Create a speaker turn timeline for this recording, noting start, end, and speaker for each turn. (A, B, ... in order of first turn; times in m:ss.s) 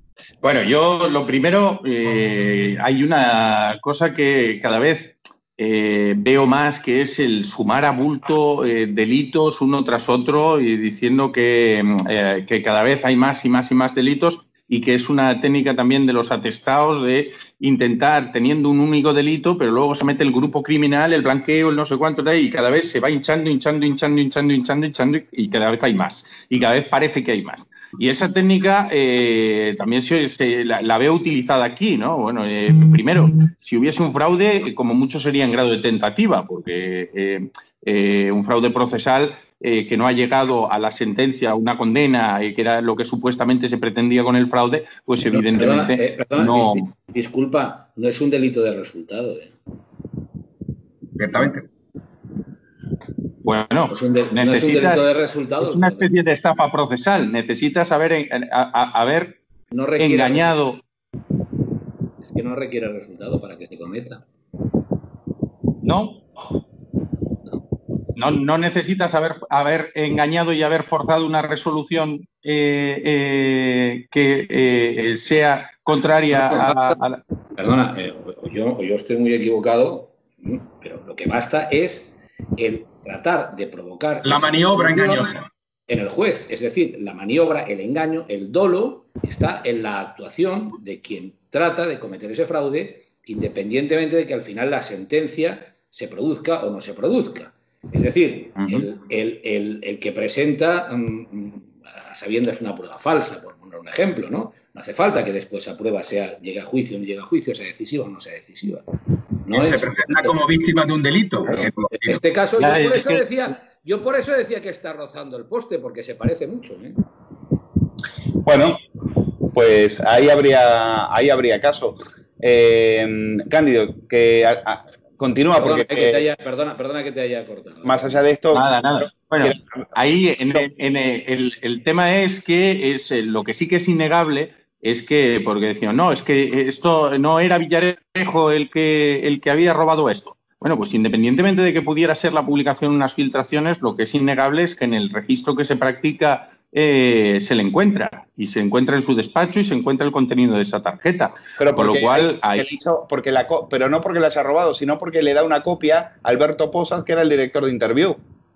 0:00.4-0:46.9 A
0:45.3-0:49.6 B
0:51.2-0:51.7 C
0:53.4-0:55.1 A
0:53.9-0:56.1 B
0:55.6-0:59.4 A
0:59.7-1:00.6 B
1:00.0-1:00.8 A
1:02.2-1:04.3 B
1:05.8-1:06.2 A
1:08.1-1:17.2 A
1:16.5-1:17.0 B
1:17.6-1:25.3 B
1:24.2-1:25.4 C
1:25.9-1:48.9 B
1:49.4-1:50.4 B
1:49.5-1:52.2 C
1:51.9-1:57.0 B
1:52.6-1:53.2 A
1:58.4-1:58.8 D
1:59.5-2:06.2 D
2:05.6-2:08.2 B
2:07.8-2:09.6 D
2:08.5-2:32.6 A
2:31.6-2:38.2 D